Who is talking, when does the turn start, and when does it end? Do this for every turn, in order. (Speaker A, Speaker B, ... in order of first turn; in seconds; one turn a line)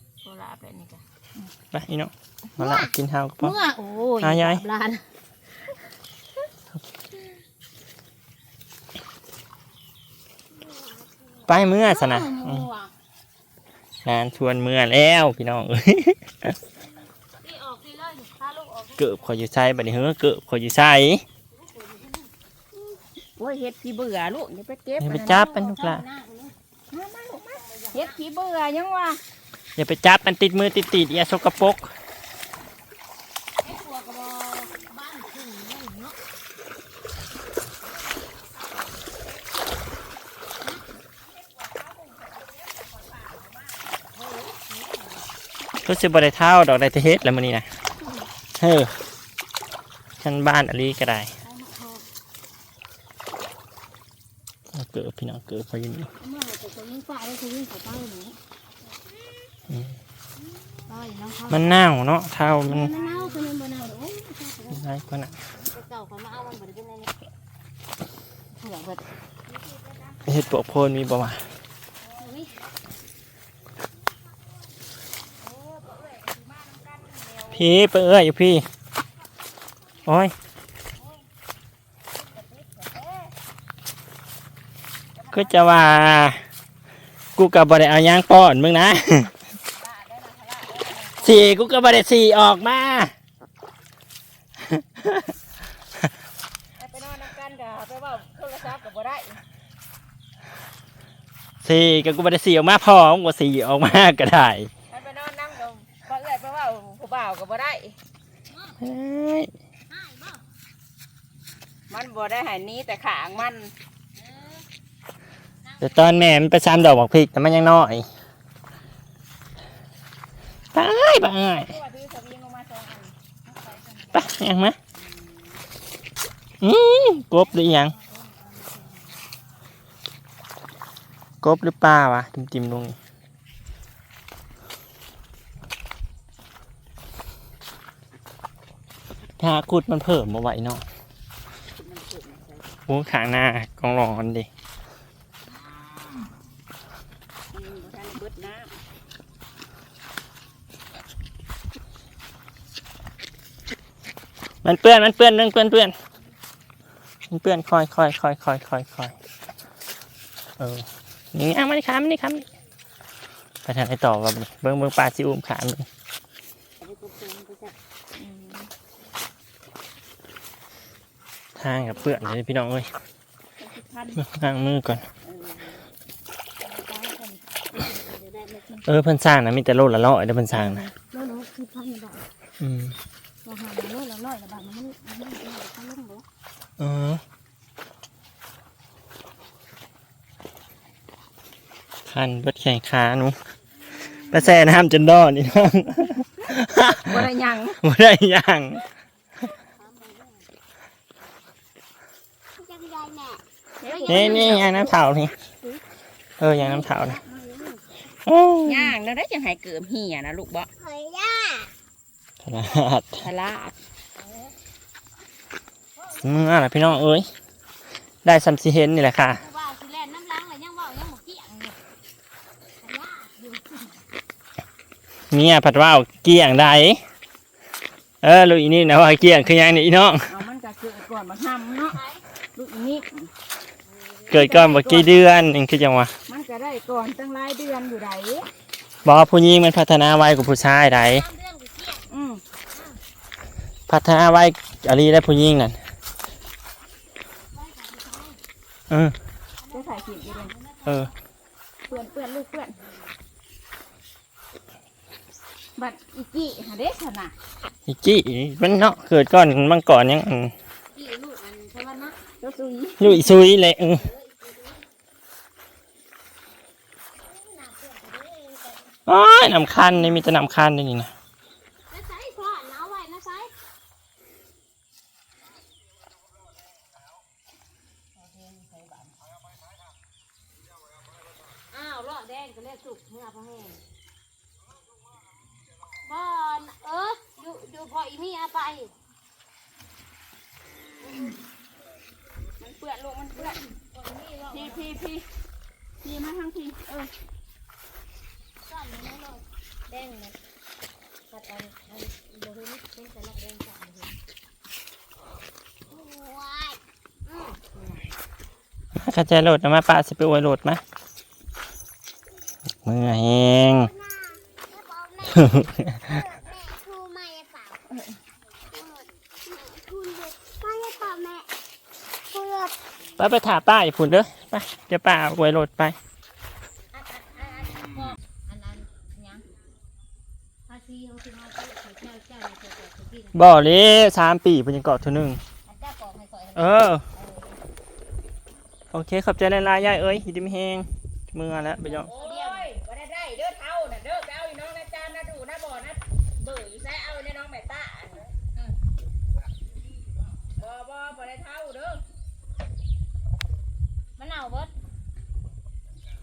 Speaker A: 0.2-1.4
Speaker B: 1.7-3.5
Speaker C: 2.6-5.0
Speaker B: 4.2-4.6
Speaker C: 10.8-12.9
Speaker B: 11.5-12.7
Speaker B: 14.0-16.5
Speaker C: 17.4-19.4
Speaker B: 19.0-21.2
Speaker C: 21.5-22.3
Speaker A: 23.4-25.4
Speaker B: 25.0-26.0
Speaker C: 25.1-26.5
Speaker A: 26.9-29.2
Speaker C: 27.3-28.2
Speaker B: 29.8-31.9
Speaker C: 33.6-36.2
Speaker A: 37.8-39.4
Speaker A: 41.2-44.1
Speaker C: 44.1-45.2
Speaker B: 45.8-47.7
Speaker B: 48.6-48.9
Speaker B: 50.2-51.3
Speaker C: 51.4-52.0
Speaker B: 54.7-56.1
Speaker C: 56.2-58.4
Speaker B: 59.7-59.9
Speaker C: 60.9-61.8
Speaker B: 61.5-62.9
Speaker C: 62.6-64.8
Speaker A: 62.9-63.5
Speaker B: 64.7-65.4
Speaker C: 65.5-67.1
Speaker C: 68.5-69.0
Speaker A: 69.4-70.8
Speaker B: 70.3-71.4
Speaker A: 72.0-72.7
Speaker C: 72.2-72.5
Speaker A: 75.4-77.8
Speaker B: 77.5-78.7
Speaker B: 80.0-80.3
Speaker A: 82.1-83.3
Speaker A: 85.1-85.8
Speaker B: 85.3-86.4
Speaker B: 87.3-89.3
Speaker A: 89.7-91.4
Speaker B: 91.2-93.1
Speaker B: 94.7-95.3
Speaker A: 96.8-99.4
Speaker B: 101.6-104.7
Speaker A: 104.9-108.0
Speaker C: 108.5-108.9
Speaker B: 108.8-109.5
Speaker C: 109.9-110.4
Speaker A: 111.9-113.7
Speaker C: 114.1-114.7
Speaker C: 115.6-116.3
Speaker B: 115.8-118.1
Speaker B: 120.7-121.7
Speaker A: 121.4-123.2
Speaker C: 123.4-124.4
Speaker B: 124.1-124.8
Speaker A: 124.9-125.6
Speaker B: 126.6-127.9
Speaker C: 127.3-129.2
Speaker B: 131.4-132.9
Speaker B: 139.4-140.8
Speaker A: 141.7-142.8
Speaker B: 142.9-144.5
Speaker A: 147.5-148.8
Speaker B: 154.6-155.9
Speaker B: 157.3-159.1
Speaker B: 160.6-162.5
Speaker B: 163.6-165.8
Speaker C: 166.8-167.7
Speaker A: 168.1-168.7
Speaker B: 171.6-172.9
Speaker C: 171.8-172.2
Speaker A: 173.6-174.2
Speaker B: 174.2-175.1
Speaker A: 175.2-175.8
Speaker C: 176.6-178.8
Speaker B: 178.8-180.9
Speaker C: 180.5-182.2
Speaker B: 182.6-183.0
Speaker C: 183.4-186.2
Speaker B: 186.8-187.2
Speaker B: 192.1-193.4
Speaker B: 194.3-197.2
Speaker A: 197.0-197.8
Speaker B: 197.8-198.8
Speaker C: 199.7-200.4
Speaker D: 202.6-203.4
Speaker A: 203.8-205.0
Speaker C: 203.9-204.8
Speaker B: 204.1-205.3
Speaker B: 206.4-207.2
Speaker C: 206.6-207.8
Speaker B: 208.2-208.9
Speaker A: 208.6-210.7
Speaker D: 210.8-211.7
Speaker B: 212.4-213.3
Speaker A: 212.6-213.8
Speaker C: 214.1-214.5
Speaker C: 215.9-216.5
Speaker B: 216.2-217.3
Speaker B: 218.2-219.4
Speaker C: 219.4-221.8
Speaker C: 222.8-224.0
Speaker B: 225.3-227.0
Speaker B: 228.2-230.3
Speaker A: 230.3-232.0
Speaker C: 231.9-232.2
Speaker A: 232.5-233.3
Speaker C: 233.9-234.3
Speaker B: 234.3-236.1
Speaker A: 234.3-235.1
Speaker A: 236.2-238.5
Speaker B: 239.0-241.3
Speaker C: 241.1-242.1
Speaker A: 242.1-242.4
Speaker C: 242.7-243.0
Speaker B: 243.9-245.8
Speaker C: 247.5-248.4
Speaker B: 248.9-249.2
Speaker C: 249.6-251.1
Speaker A: 249.7-250.5
Speaker B: 250.8-251.1
Speaker A: 251.9-252.8
Speaker C: 251.9-253.1
Speaker A: 255.8-257.3
Speaker B: 257.9-260.5
Speaker C: 260.9-262.2
Speaker A: 262.4-263.3
Speaker B: 263.0-264.1
Speaker C: 263.2-264.8
Speaker C: 267.2-268.9
Speaker B: 269.1-271.1
Speaker C: 271.9-273.5
Speaker C: 278.2-279.1
Speaker C: 281.7-283.8
Speaker C: 286.0-288.9
Speaker C: 291.0-291.4
Speaker A: 292.6-293.6
Speaker C: 293.3-295.1
Speaker A: 294.5-295.2
Speaker A: 296.0-297.1
Speaker C: 298.6-300.4
Speaker C: 301.3-304.2
Speaker C: 305.9-306.7
Speaker D: 306.1-306.8
Speaker C: 307.2-308.1
Speaker B: 308.9-310.8
Speaker B: 312.8-313.9
Speaker D: 313.7-317.8
Speaker B: 315.3-316.1
Speaker D: 318.7-321.5
Speaker D: 322.3-322.7
Speaker B: 323.2-325.9
Speaker C: 326.9-329.5
Speaker C: 330.7-333.4
Speaker B: 333.3-335.4
Speaker C: 335.6-337.6
Speaker B: 336.6-337.0
Speaker B: 338.9-342.1
Speaker C: 341.8-342.7
Speaker A: 342.0-348.3
Speaker A: 350.5-352.0
Speaker C: 354.2-354.7